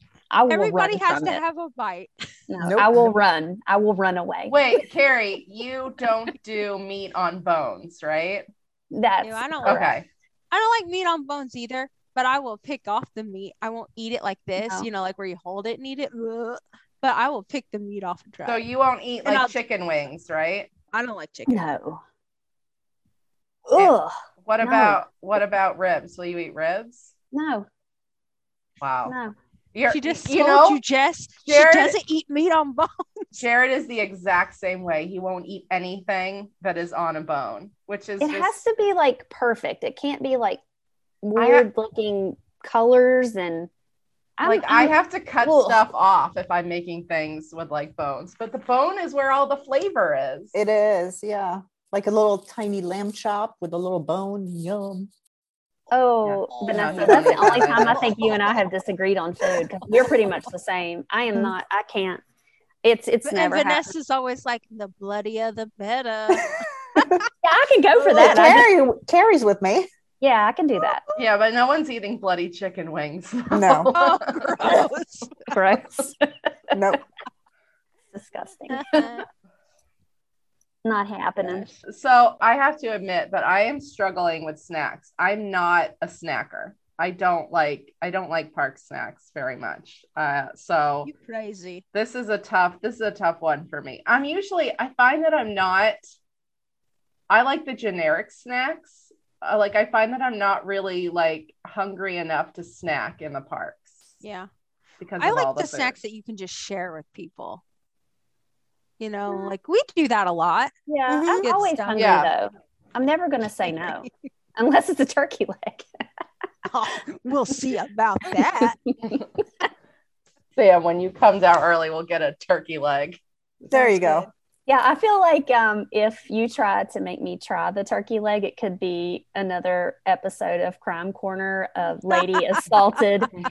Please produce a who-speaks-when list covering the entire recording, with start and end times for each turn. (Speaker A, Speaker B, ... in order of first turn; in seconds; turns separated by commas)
Speaker A: 0.3-1.4, Speaker B: 0.5-2.1, Speaker A: 2.5-4.6, Speaker C: 2.6-3.2, Speaker D: 4.5-8.5, Speaker A: 8.9-9.9, Speaker B: 9.2-9.9, Speaker D: 9.7-10.1, Speaker B: 10.5-18.6, Speaker A: 14.6-14.9, Speaker D: 18.5-20.7, Speaker B: 19.2-19.6, Speaker B: 20.9-21.6, Speaker A: 21.5-22.0, Speaker A: 23.7-25.0, Speaker D: 23.8-27.1, Speaker A: 27.3-27.7, Speaker D: 28.8-29.1, Speaker A: 29.1-29.4, Speaker D: 29.7-30.8, Speaker B: 29.9-33.4, Speaker D: 31.5-32.0, Speaker D: 33.4-38.6, Speaker A: 38.2-40.6, Speaker A: 41.2-43.7, Speaker D: 41.4-41.7, Speaker A: 44.4-45.9, Speaker D: 44.4-50.5, Speaker C: 50.5-55.1, Speaker A: 55.9-62.2, Speaker D: 56.2-58.3, Speaker C: 57.1-57.7, Speaker A: 62.8-63.9, Speaker B: 63.2-67.1, Speaker C: 66.3-67.2, Speaker A: 67.4-68.7, Speaker C: 68.0-69.9, Speaker A: 70.2-71.0, Speaker D: 71.2-74.8, Speaker C: 73.5-73.9, Speaker B: 74.0-75.5, Speaker A: 75.5-76.8, Speaker C: 76.7-77.0, Speaker A: 78.1-79.2, Speaker B: 78.7-79.2, Speaker A: 80.8-81.7, Speaker D: 81.8-91.1, Speaker B: 91.0-91.8, Speaker D: 91.9-96.0, Speaker D: 97.3-104.1, Speaker B: 104.2-104.5, Speaker D: 105.0-106.0, Speaker B: 105.2-107.6, Speaker B: 109.0-112.2, Speaker A: 109.3-109.5, Speaker A: 110.9-115.9, Speaker D: 111.9-112.3, Speaker B: 116.7-118.8, Speaker A: 118.9-119.2, Speaker D: 120.5-123.2, Speaker C: 123.6-124.3, Speaker A: 123.7-133.3